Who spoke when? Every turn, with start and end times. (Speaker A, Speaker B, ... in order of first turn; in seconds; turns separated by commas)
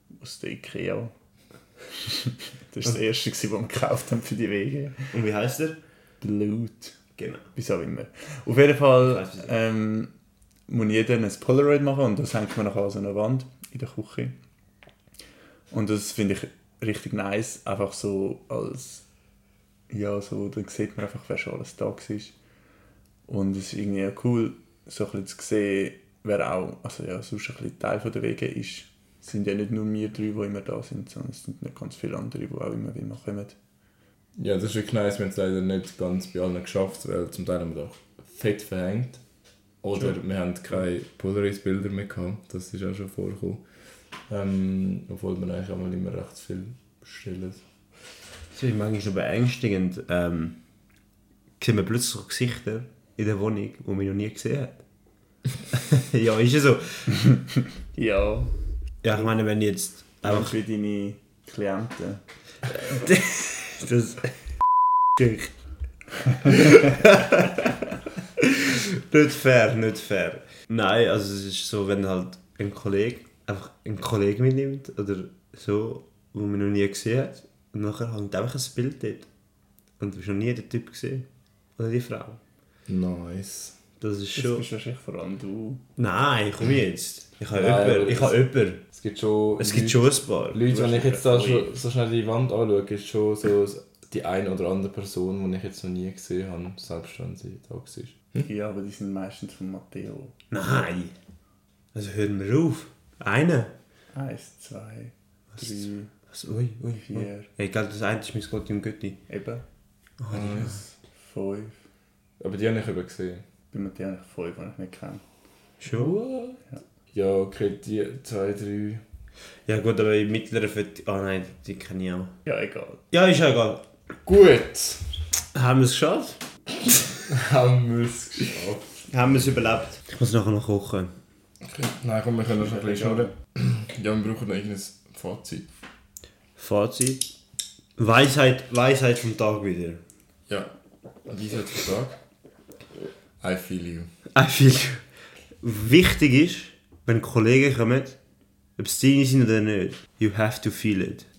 Speaker A: 0.1-1.1, Speaker A: 2.0-5.1, Speaker B: 5.1-5.8, Speaker A: 6.2-6.9, Speaker B: 7.2-7.4, Speaker A: 7.5-10.1, Speaker B: 9.0-9.5, Speaker A: 10.7-14.4, Speaker A: 15.7-19.0, Speaker A: 19.9-22.3, Speaker A: 23.3-33.5, Speaker C: 34.4-39.2, Speaker C: 39.8-43.6, Speaker C: 44.3-47.6, Speaker B: 48.5-50.6, Speaker B: 51.6-54.8, Speaker B: 55.7-57.2, Speaker A: 57.9-58.5, Speaker B: 59.0-60.5, Speaker A: 60.2-62.2, Speaker B: 62.7-64.3, Speaker B: 65.1-65.5, Speaker B: 66.4-67.7, Speaker B: 68.4-79.3, Speaker B: 80.0-81.2, Speaker B: 81.8-82.4, Speaker C: 82.9-83.8, Speaker B: 84.0-84.6, Speaker A: 84.3-85.8, Speaker B: 86.0-88.8, Speaker C: 87.5-98.4, Speaker B: 89.6-90.6, Speaker A: 90.6-91.7, Speaker A: 98.4-100.3, Speaker B: 100.5-101.1, Speaker B: 101.9-103.7, Speaker A: 104.1-106.1, Speaker B: 106.3-109.2, Speaker A: 107.0-107.5, Speaker A: 109.3-109.6, Speaker B: 110.2-110.8, Speaker C: 110.3-110.9, Speaker A: 111.2-111.8, Speaker C: 112.4-113.4, Speaker A: 113.7-115.2, Speaker B: 115.8-116.5, Speaker C: 116.0-116.3, Speaker C: 117.1-119.0, Speaker B: 119.7-122.3, Speaker A: 122.4-123.0, Speaker B: 123.1-123.8, Speaker C: 124.2-125.0, Speaker B: 125.5-126.4, Speaker C: 127.3-129.4, Speaker B: 129.1-131.1, Speaker C: 131.6-135.7, Speaker A: 132.6-133.3, Speaker B: 136.6-137.3, Speaker B: 138.0-140.0, Speaker C: 141.2-142.2, Speaker C: 143.4-144.1, Speaker B: 144.3-145.0, Speaker B: 145.6-148.2, Speaker B: 148.8-151.2